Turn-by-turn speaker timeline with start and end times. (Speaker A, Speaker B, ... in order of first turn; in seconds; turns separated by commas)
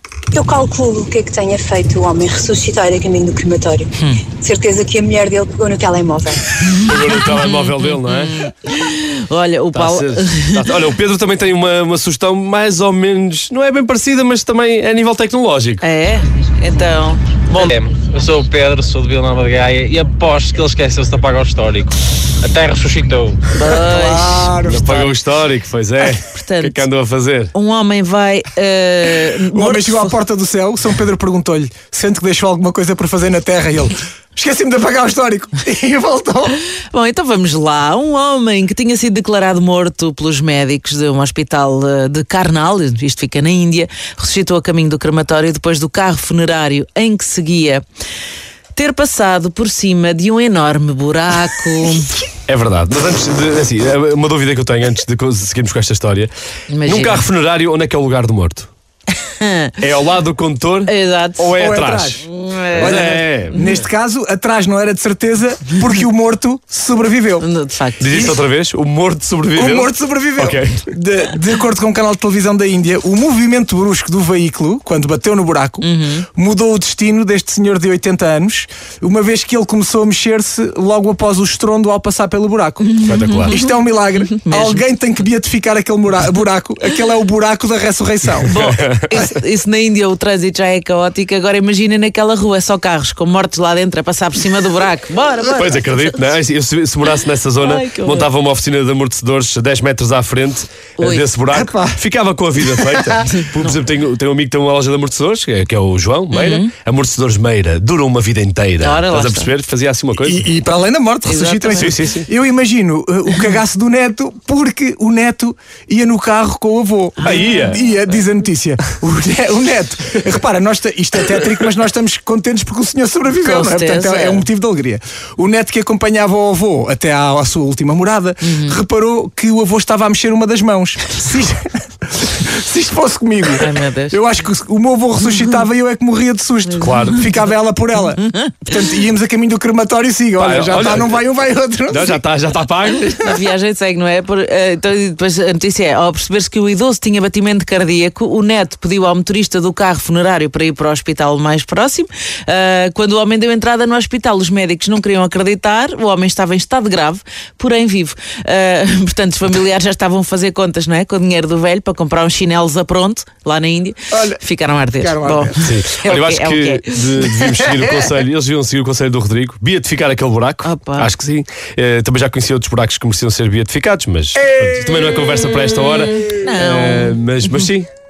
Speaker A: 0.3-6.6, Speaker B: 4.0-4.2, Speaker C: 6.7-8.5, Speaker B: 6.7-10.7, Speaker C: 9.7-15.8, Speaker B: 15.8-17.7, Speaker D: 17.6-23.4, Speaker B: 23.5-25.1, Speaker E: 23.6-25.0, Speaker C: 24.6-27.5, Speaker B: 26.3-26.9, Speaker B: 27.5-30.1, Speaker E: 29.5-36.6, Speaker B: 36.9-47.8, Speaker B: 48.8-52.2, Speaker C: 52.5-56.3, Speaker B: 56.7-57.3, Speaker C: 56.9-58.7, Speaker B: 59.2-59.8, Speaker C: 59.8-63.7, Speaker B: 60.9-61.5, Speaker E: 61.5-62.2, Speaker B: 62.2-63.6, Speaker E: 62.8-67.5, Speaker B: 67.4-68.3, Speaker C: 68.0-70.9, Speaker E: 68.1-68.4, Speaker E: 69.5-88.5, Speaker B: 75.8-76.3, Speaker B: 82.8-84.8, Speaker C: 83.0-83.6, Speaker B: 88.4-96.1, Speaker C: 88.6-89.1, Speaker C: 95.5-110.5, Speaker B: 97.6-98.3, Speaker B: 101.0-101.2, Speaker E: 101.5-102.0, Speaker E: 102.8-103.1, Speaker B: 103.4-103.7, Speaker B: 106.3-106.7, Speaker B: 108.8-109.5, Speaker E: 110.2-142.2, Speaker B: 111.2-112.0, Speaker C: 111.8-112.3, Speaker B: 117.2-117.8, Speaker C: 117.2-117.8, Speaker B: 123.3-124.5, Speaker B: 128.4-128.8, Speaker B: 133.6-134.2, Speaker B: 136.8-137.1, Speaker C: 136.8-137.2, Speaker B: 138.2-138.6, Speaker C: 140.4-141.2, Speaker C: 141.9-143.3, Speaker B: 143.2-167.4, Speaker E: 164.1-164.4, Speaker E: 164.9-165.6, Speaker C: 165.6-177.9, Speaker E: 167.7-168.1, Speaker B: 170.6-171.1, Speaker E: 174.3-175.3, Speaker B: 176.3-177.7